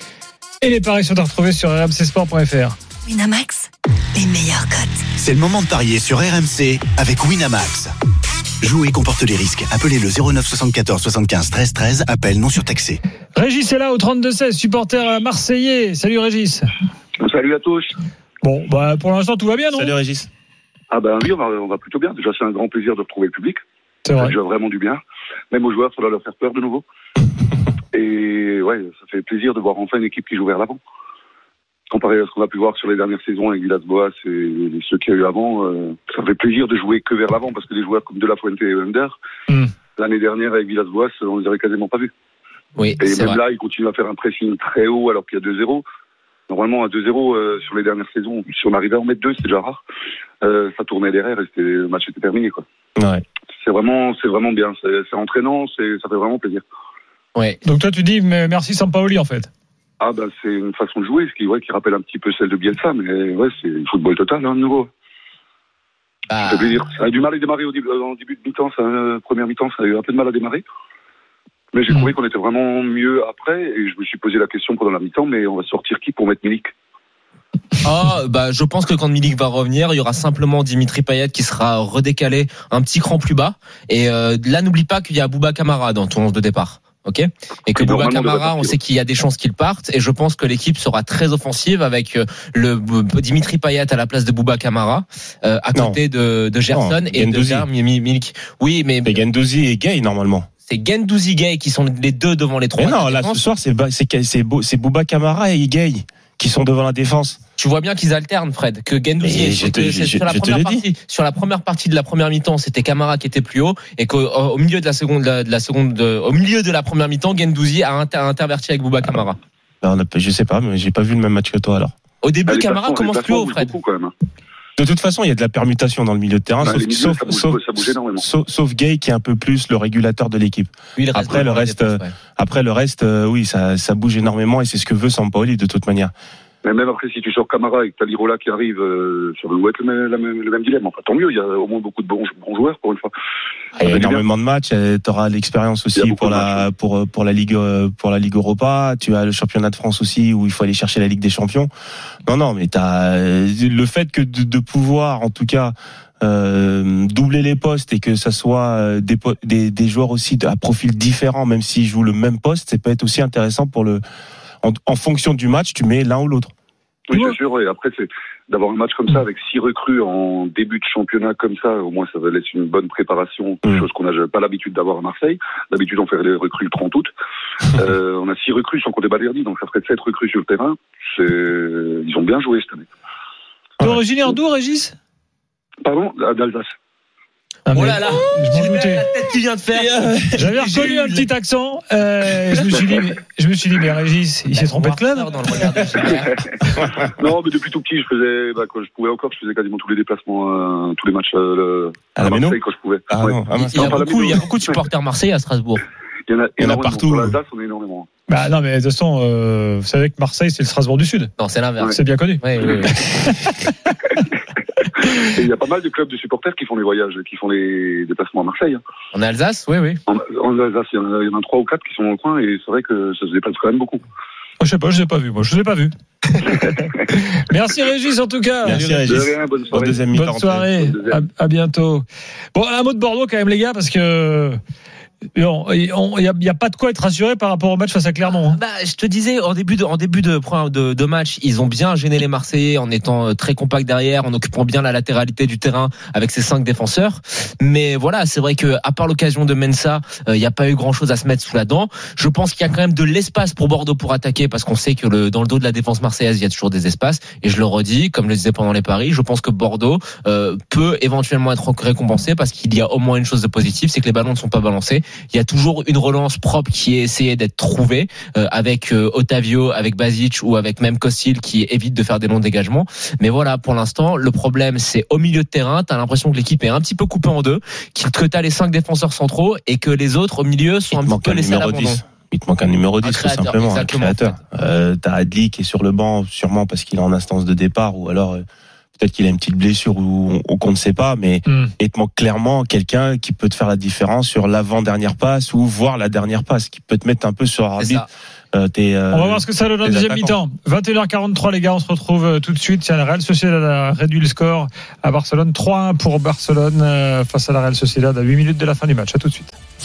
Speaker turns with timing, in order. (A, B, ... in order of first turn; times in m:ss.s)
0:00.6-0:02.8 A
0:03.0-0:05.0 B
0:05.2-0:07.9 C
0:08.6-0:13.0 C
0:13.4-0:16.7 A
0:17.2-0:17.9 D
0:18.4-0:19.9 A
0:19.7-0:20.3 E
0:20.9-0:23.6 D
0:24.0-0:24.3 A
0:24.1-0:25.0 D
0:25.5-0:26.8 D
0:27.9-0:30.8 D
0:31.9-0:39.2 D
0:40.0-0:42.1 D
0:42.8-0:43.4 F
0:43.0-0:45.8 D
0:46.5-0:49.8 D
0:50.4-0:52.6 D
0:53.0-0:53.2 E
0:53.6-0:56.6 D
0:57.6-0:59.5 A
1:00.0-1:04.9 D
1:06.3-1:06.9 F
1:06.4-1:10.6 D
1:11.7-1:16.7 D
1:17.8-1:39.2 F
1:27.7-1:28.8 D
1:35.7-1:36.0 E
1:36.7-1:37.7 E
1:39.0-1:40.5 E
1:40.7-1:43.4 F
1:42.8-1:47.4 E
1:47.6-1:59.4 F
1:49.2-1:50.8 E
1:59.8-2:01.9 E
2:02.2-2:03.7 F
2:02.4-2:04.1 D
2:04.8-2:16.1 E
2:06.6-2:08.2 D
2:11.0-2:12.1 F
2:16.6-2:23.1 D
2:23.8-2:24.2 D
2:23.8-2:31.7 E
2:25.9-2:26.6 D
2:32.2-2:44.0 E
2:44.6-2:46.5 E
2:47.1-2:57.1 D
2:57.7-3:02.9 D
3:03.8-3:04.9 A
3:05.8-3:06.7 D
3:07.7-3:09.0 A
3:07.7-3:11.3 F
3:10.3-3:16.0 A
3:14.5-3:16.4 F
3:16.2-3:24.8 D
3:22.2-3:24.2 E
3:23.6-3:25.8 F
3:26.3-3:28.1 D
3:26.6-3:27.4 E
3:28.3-3:31.3 A
3:31.4-3:33.0 F
3:31.9-3:33.6 A
3:35.0-3:38.8 D
3:39.1-3:40.0 F
3:40.1-3:44.0 D
3:44.6-3:49.3 A
3:46.4-3:46.8 D
3:48.6-3:50.7 E
3:48.9-3:50.1 D
3:50.1-3:54.6 A
3:50.7-3:51.2 D
3:55.3-3:58.6 A
3:58.4-4:42.0 F
4:40.9-4:48.4 E
4:43.0-4:44.4 F
4:49.0-5:00.3 E
4:51.5-4:51.7 A
4:57.8-4:58.0 F
4:59.1-5:09.5 A